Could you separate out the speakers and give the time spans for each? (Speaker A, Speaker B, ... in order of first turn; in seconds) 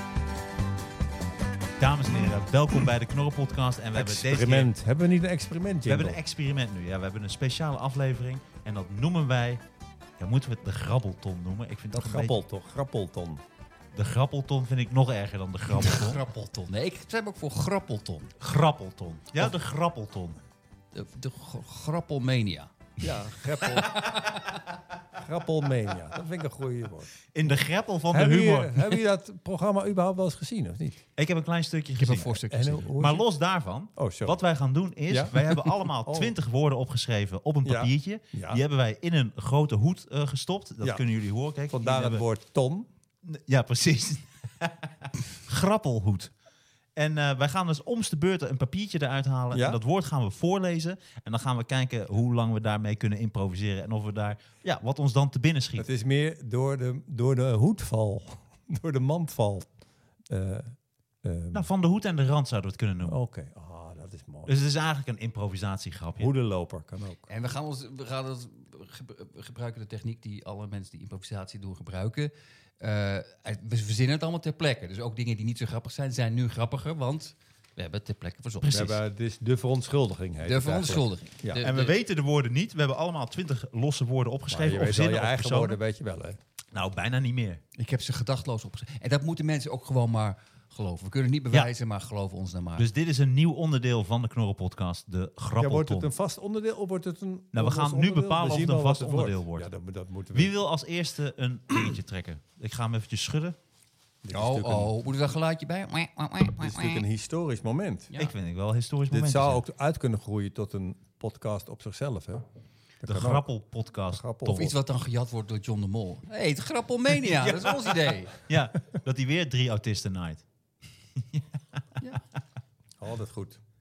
Speaker A: 1.8-4.7, 5.9-9.6, 10.2-12.4, 13.9-16.2, 18.4-20.4, 27.3-29.0, 31.2-42.2, 43.2-46.3, 47.0-55.9, 61.5-63.2, 64.5-66.3, 78.6-79.0, 81.6-85.8, 86.7-87.6, 92.8-96.1, 97.5-99.7, 100.3-103.5, 108.2-109.6, 113.1-114.7, 117.3-120.4, 121.2-121.4
Speaker B: 3.9-6.2, 11.9-13.4, 23.0-24.0, 25.2-27.1, 28.1-31.0, 32.5-33.3, 34.0-34.4, 35.1-36.3, 37.6-38.6, 41.7-42.9, 49.5-49.8, 55.8-59.7, 60.3-61.6, 63.0-64.5, 66.2-67.2, 78.7-81.6, 84.5-86.4, 95.6-100.5, 104.2-104.9, 106.5-108.1, 109.1-112.4, 113.0-113.5, 114.1-114.7, 123.0-123.6
Speaker C: 15.7-18.3, 20.9-22.7, 23.6-24.5, 32.0-32.9, 67.3-78.9, 80.4-82.0, 87.7-92.8, 104.3-107.0, 114.5-118.3